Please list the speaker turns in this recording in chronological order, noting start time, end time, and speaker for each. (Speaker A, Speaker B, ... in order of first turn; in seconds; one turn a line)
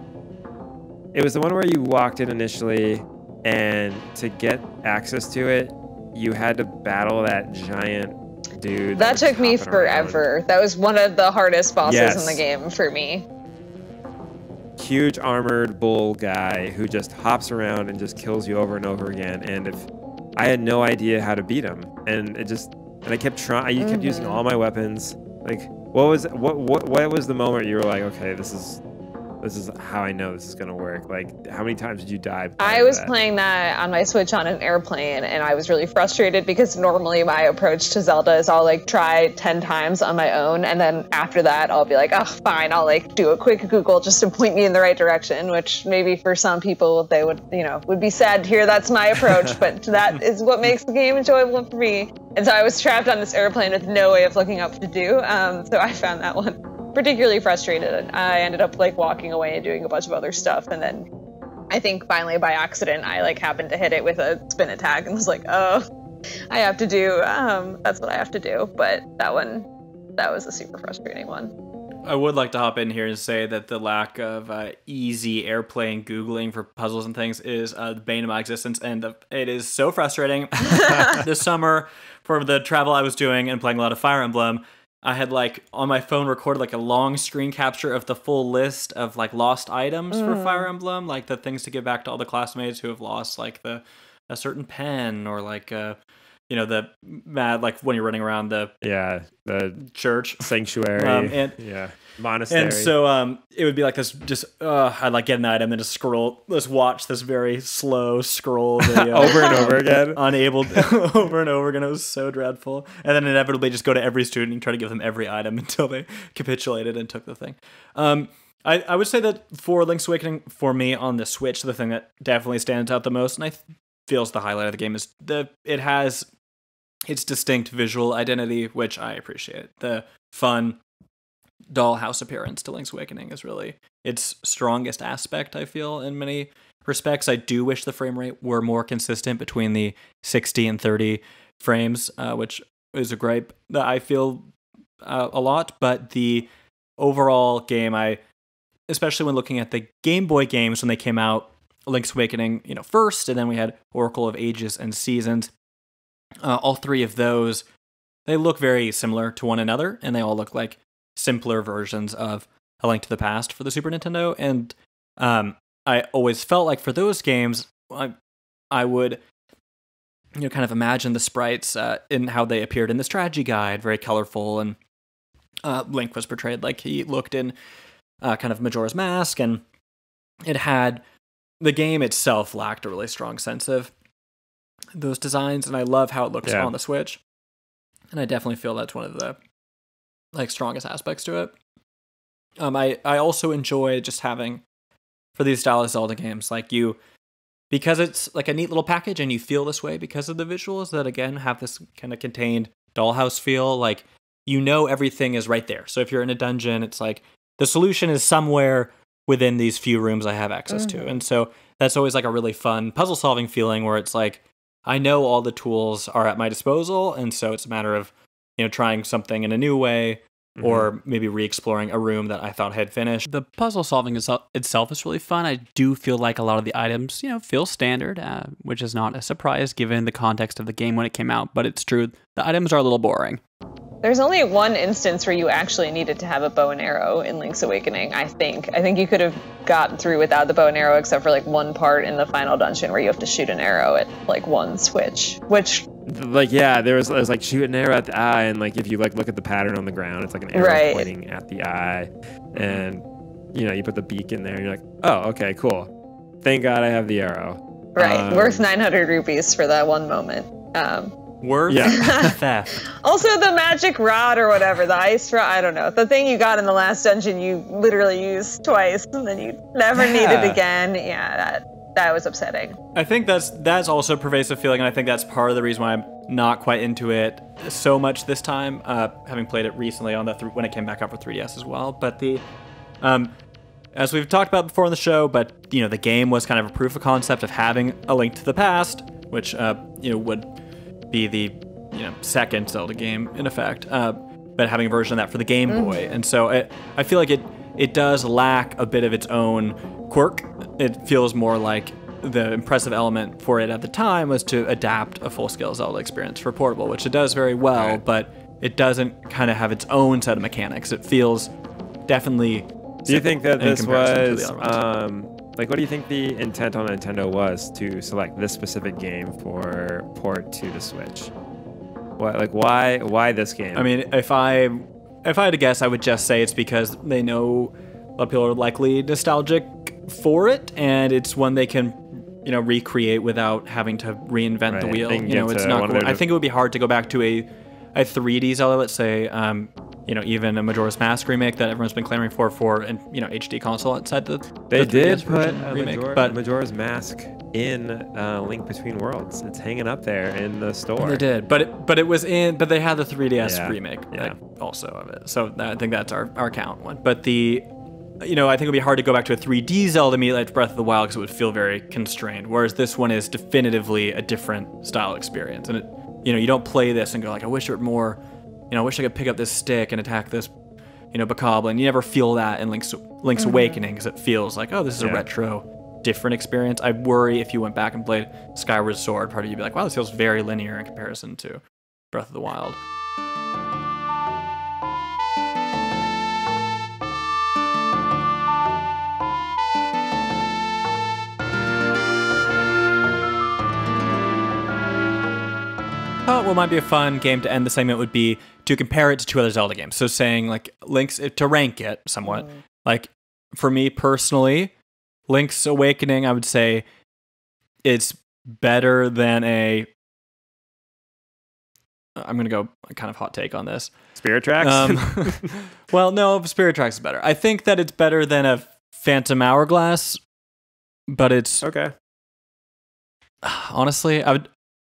Speaker A: 1.1-10.2
Speaker B: 8.9-13.3
Speaker A: 11.8-12.4
Speaker A: 14.8-28.8
Speaker B: 23.8-24.4
Speaker A: 29.4-33.1
Speaker B: 32.6-61.1
Speaker B: 61.7-65.9
Speaker B: 66.5-71.5
Speaker C: 72.0-96.0
Speaker B: 90.1-90.7
Speaker C: 96.5-98.7
Speaker A: 98.8-99.8
Speaker C: 99.9-101.6
Speaker A: 100.4-102.9
Speaker C: 102.5-126.3
Speaker A: 109.0-110.2
Speaker C: 127.1-130.8
Speaker C: 131.7-144.5
Speaker C: 145.0-148.2
Speaker C: 148.9-155.5
Speaker C: 156.4-157.6
Speaker C: 158.3-168.1
Speaker C: 168.7-169.2
Speaker C: 170.4-174.8
Speaker C: 175.6-177.6
Speaker C: 178.2-179.6
Speaker C: 180.4-181.0
Speaker C: 181.6-183.9
Speaker C: 184.9-187.2
Speaker A: 186.4-186.7
Speaker C: 188.1-189.4
Speaker C: 190.3-191.6
Speaker C: 192.6-194.6
Speaker C: 195.4-197.0
Speaker C: 197.7-223.3
Speaker B: 210.7-211.1
Speaker A: 220.6-220.9
Speaker D: 223.3-233.4
Speaker B: 234.0-245.9
Speaker A: 246.1-255.9
Speaker B: 250.5-251.1
Speaker C: 252.6-252.8
Speaker A: 256.4-258.6
Speaker B: 257.9-261.1
Speaker C: 261.4-262.8
Speaker A: 261.7-262.3
Speaker B: 261.8-272.8
Speaker A: 270.0-270.6
Speaker C: 272.9-282.4
Speaker C: 283.0-283.3
Speaker C: 283.9-290.5
Speaker C: 291.1-311.5
Speaker B: 295.7-296.1
Speaker A: 307.8-308.0
Speaker C: 312.1-314.8
Speaker A: 313.1-321.3
Speaker A: 322.2-323.9
Speaker C: 323.8-346.4
Speaker A: 334.7-336.2
Speaker A: 344.7-351.2
Speaker C: 351.0-357.6
Speaker A: 353.4-354.3
Speaker C: 358.2-368.2
Speaker C: 368.7-370.5
Speaker C: 371.1-382.8
Speaker B: 373.4-373.8
Speaker A: 375.0-375.2
Speaker C: 396.2-404.7
Speaker B: 402.3-402.5
Speaker C: 405.3-406.8
Speaker C: 407.8-409.9
Speaker C: 412.2-413.9
Speaker A: 414.2-415.5
Speaker C: 414.6-420.2
Speaker C: 421.1-421.6
Speaker A: 421.6-421.9
Speaker C: 423.4-424.5